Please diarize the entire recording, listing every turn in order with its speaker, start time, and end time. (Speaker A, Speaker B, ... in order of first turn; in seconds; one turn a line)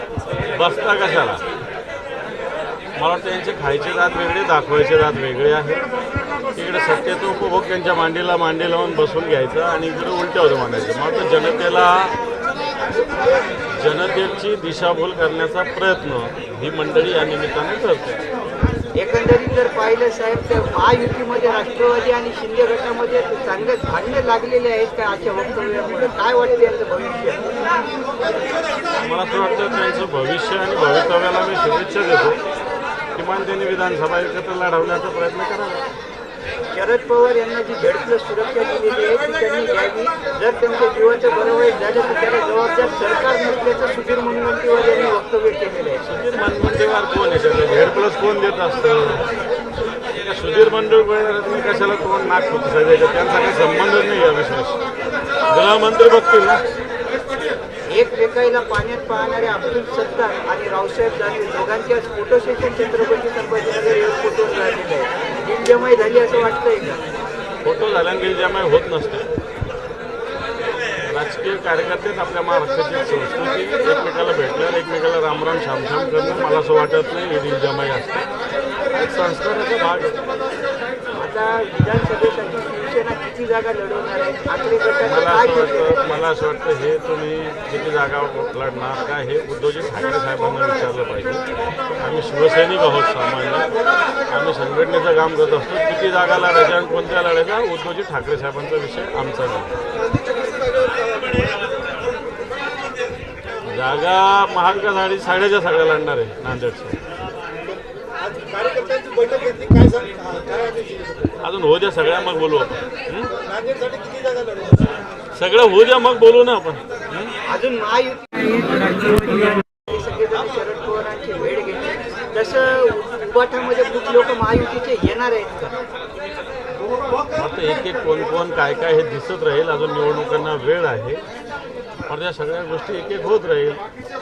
Speaker A: 0.5-1.4
Speaker A: 3.0-5.8
Speaker A: 6.5-12.2
Speaker A: 13.7-18.2
Speaker B: 18.9-27.5
Speaker A: 29.0-32.4
Speaker A: 33.1-35.9
Speaker B: 36.7-46.1
Speaker A: 46.0-49.3
Speaker A: 50.2-54.8
Speaker A: 55.5-56.6
Speaker B: 57.9-67.0
Speaker A: 67.6-69.3
Speaker A: 71.0-78.3
Speaker A: 78.9-80.2
Speaker B: 81.2-86.0
Speaker A: 85.0-91.4
Speaker A: 92.0-93.7
Speaker A: 94.3-99.7
Speaker C: 100.4-101.2
Speaker A: 103.7-107.0
Speaker C: 108.4-111.1
Speaker A: 111.4-113.4
Speaker C: 113.5-114.8
Speaker A: 115.3-117.3
Speaker B: 117.5-125.8
Speaker A: 127.3-131.2
Speaker A: 132.1-133.8